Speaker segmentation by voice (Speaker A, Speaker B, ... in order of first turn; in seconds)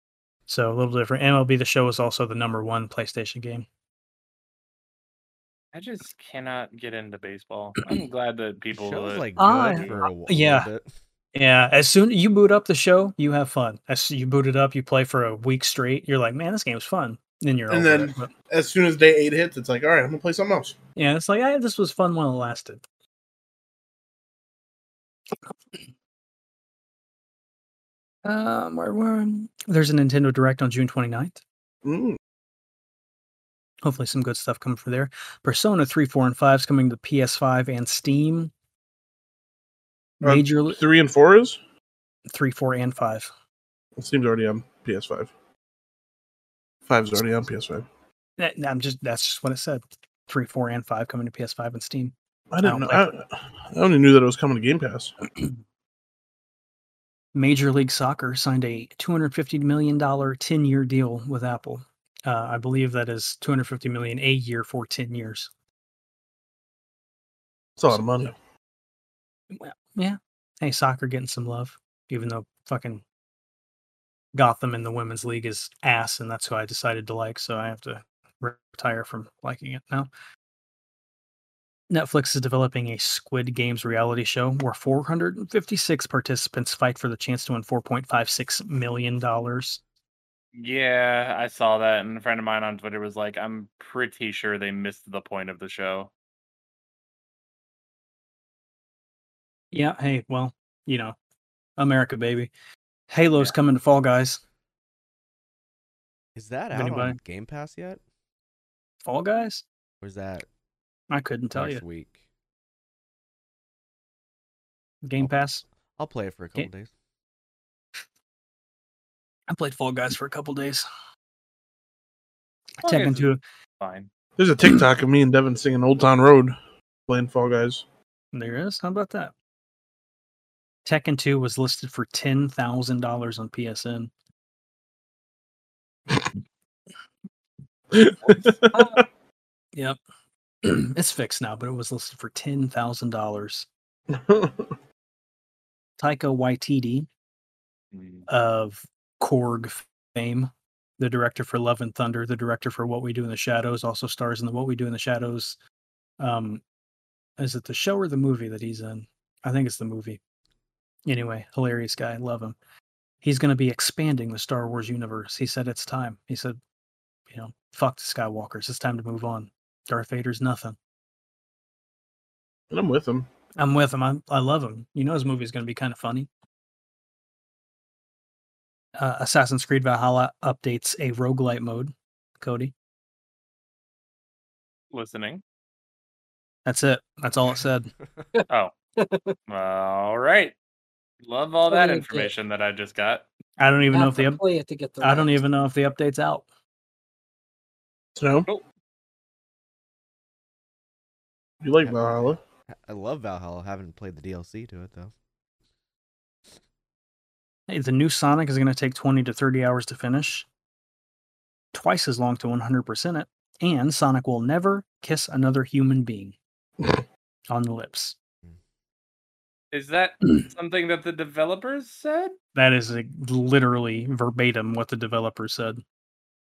Speaker A: 0.5-3.6, 9.4-10.7, 11.3-18.3, 20.9-22.8, 28.2-31.4, 33.8-38.5, 40.2-40.8, 42.3-43.3, 48.4-53.1, 57.3-65.5, 67.9-68.3, 69.5-73.0, 74.3-80.1, 81.9-89.8, 99.7-101.2, 101.8-102.5, 103.1-104.4, 106.7-107.2, 109.0-109.6, 111.1-111.8, 115.0-115.6, 119.5-120.8, 122.8-123.4, 128.3-129.3, 130.8-134.1, 140.6-143.7, 146.0-147.1, 148.3-155.6, 156.2-156.6, 157.4-160.2, 161.1-162.6, 163.2-166.6, 167.3-170.8, 173.6-176.3, 179.0-182.7, 186.7-187.9, 193.6-194.4, 195.0-196.4, 207.7-210.5, 211.7-216.3, 217.5-218.2, 222.5-225.8
Speaker B: 5.7-9.9, 90.5-96.1, 122.8-123.3, 123.8-124.1, 147.9-148.3, 184.9-185.4, 189.5-190.5, 191.2-193.2, 219.7-222.3
Speaker C: 8.7-10.9, 106.3-108.0, 110.0-110.5, 111.5-112.2, 116.0-116.9, 201.8-205.1
Speaker D: 17.7-20.8, 31.8-32.2, 40.2-41.6, 44.0-45.3, 46.9-47.9, 52.5-55.1, 67.8-68.3, 124.4-126.5, 127.1-127.8, 137.9-139.0, 144.1-144.7, 172.7-173.3, 198.2-198.5, 201.6-202.4
Speaker E: 188.3-189.3, 191.7-192.3, 193.9-195.4